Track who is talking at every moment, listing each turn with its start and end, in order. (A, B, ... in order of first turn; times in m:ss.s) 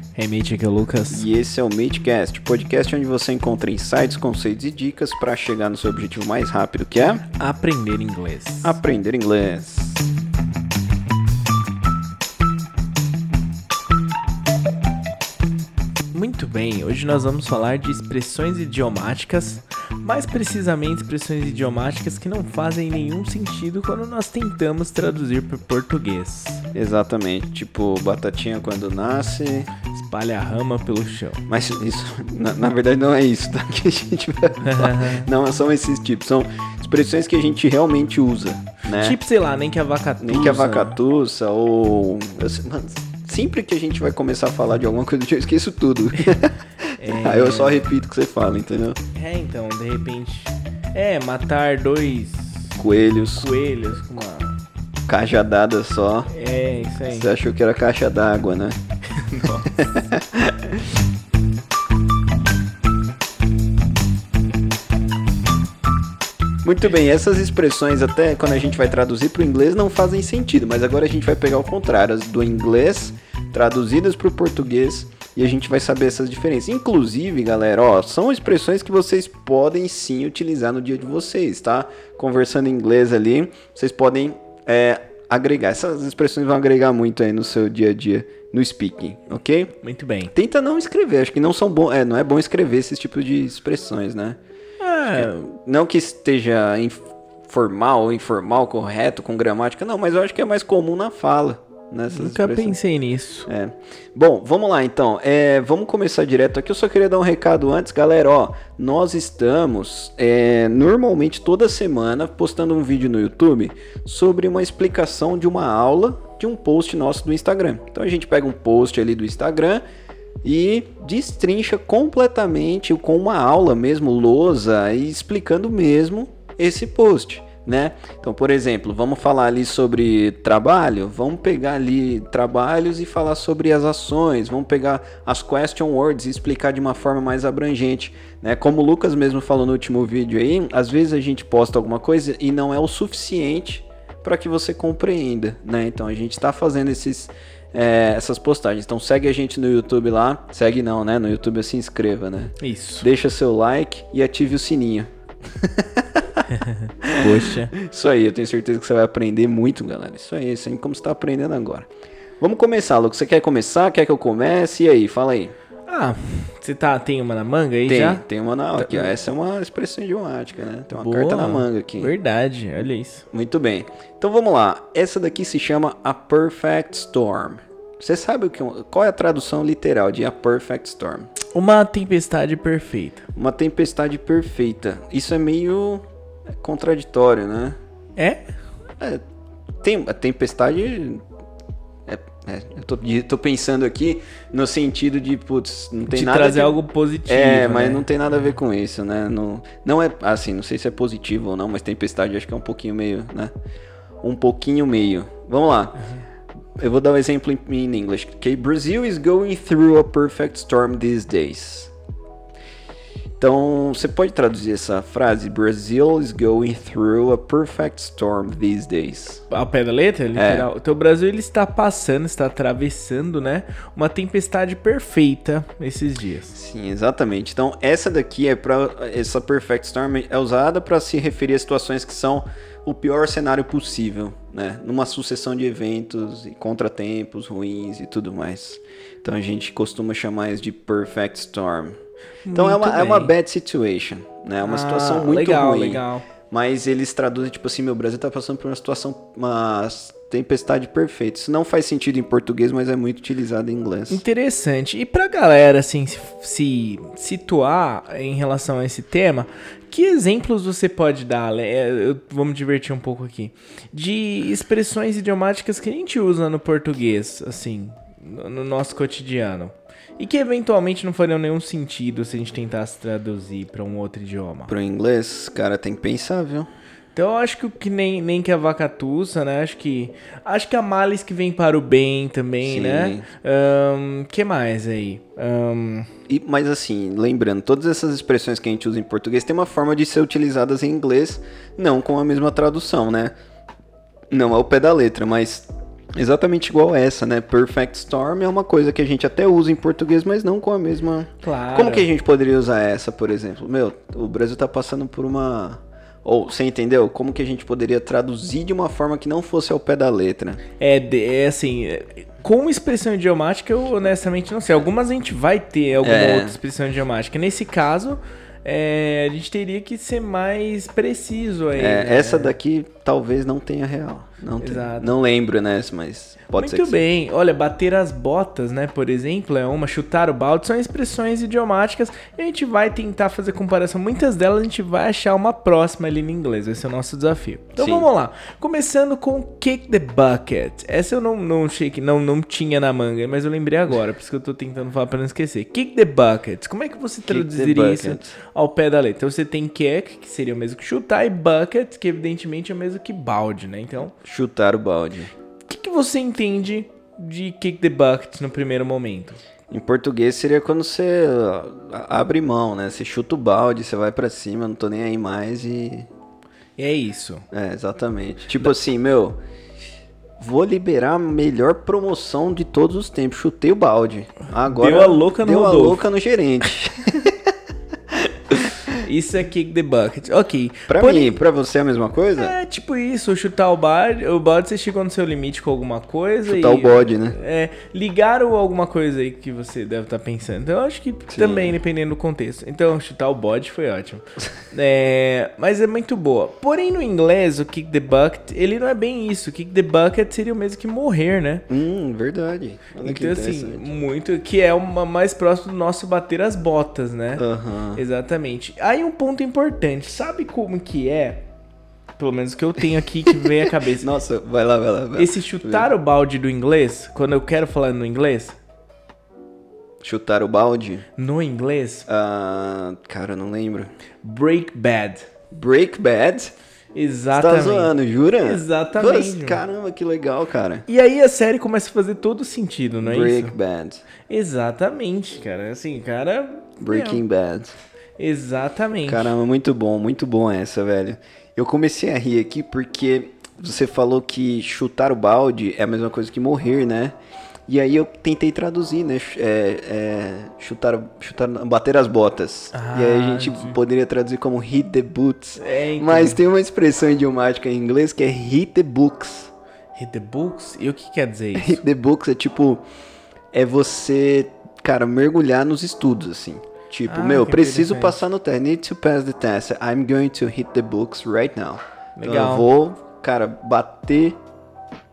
0:00.2-0:01.2 A
0:01.1-0:07.2 B
0:07.4-0:08.8 A
0:08.6-0:10.0 B
0:16.1-0:26.6 A
0:26.7-0:29.7 B
0:29.9-0:31.4 A
0:31.5-0:39.2 B
0:34.6-0:35.2 A
0:38.8-0:41.0 A
0:40.2-0:49.0 B
0:47.0-0:47.8 A
0:49.1-0:52.8 A
0:52.8-0:53.5 B
0:53.4-0:54.6 A
0:55.1-0:56.3 B
0:56.3-0:57.3 A
0:57.1-0:58.8 B
0:59.1-0:59.7 A
0:59.7-1:00.9 B
1:06.6-1:29.7 B
1:29.8-1:30.3 A
1:30.3-1:34.4 B
1:34.8-1:35.5 A
1:35.1-1:42.8 B
1:42.1-1:43.5 A
1:43.5-1:59.8 B
2:00.4-2:36.4 B
2:32.6-2:33.1 A
2:36.5-2:37.7 A
2:37.0-2:41.9 B
2:42.4-2:45.5 B
2:45.9-2:48.2 A
2:47.9-2:52.1 B
2:48.8-2:49.1 A
2:50.9-2:53.2 A
2:53.3-3:01.3 B
3:01.5-3:03.3 A
3:03.4-3:06.0 B
3:06.6-3:07.8 B
3:08.2-3:08.4 A
3:09.8-3:11.2 B
3:12.1-3:16.8 B
3:16.1-3:18.1 A
3:17.3-3:23.5 B
3:24.2-3:26.0 B
3:26.8-3:31.9 B
3:33.4-3:39.4 B
3:39.5-3:46.6 A
3:40.3-3:40.7 B
3:46.5-4:02.0 B
4:02.4-4:03.3 A
4:02.5-4:14.2 B
4:04.6-4:06.2 A
4:14.1-4:34.7 A
4:34.7-4:36.7 B
4:37.1-4:46.1 A
4:42.6-4:43.2 B
4:46.3-4:53.3 B
4:54.3-5:10.6 B
5:01.4-5:02.1 A
5:10.8-5:22.5 A
5:16.0-5:16.6 B
5:21.8-5:27.0 B
5:24.6-5:25.1 A
5:26.5-5:54.1 A
5:37.8-5:38.1 B
5:47.3-5:48.3 B
5:54.2-5:55.3 B
5:55.7-5:59.4 A
5:59.7-6:06.1 B
6:06.8-6:07.4 A
6:07.5-6:09.4 B
6:10.4-6:17.5 B
6:14.6-6:16.0 A
6:18.1-6:19.0 B
6:19.0-6:21.4 A
6:20.9-6:22.5 B
6:22.4-6:41.7 A
6:26.4-6:27.4 B
6:31.3-6:31.7 B
6:41.7-6:43.9 B
6:43.0-6:51.4 A
6:47.4-6:48.0 B
6:52.2-6:54.1 A
6:53.3-6:55.9 B
6:55.2-6:58.6 A
7:00.0-7:01.0 B
7:01.2-7:02.1 A
7:02.1-7:03.9 B
7:04.2-7:05.3 A
7:05.5-7:06.5 B
7:06.9-7:09.6 A
7:07.3-7:10.8 B
7:10.9-7:13.5 A
7:13.0-7:14.0 B
7:14.2-7:17.2 A
7:16.8-7:17.7 B
7:18.2-7:19.3 A
7:19.0-7:27.2 B
7:27.7-7:39.5 B
7:32.7-7:33.8 A
7:35.6-7:36.4 A
7:40.0-7:41.8 A
7:41.5-7:42.8 B
7:43.5-7:54.4 B
7:47.1-7:48.2 A
7:52.2-7:52.7 A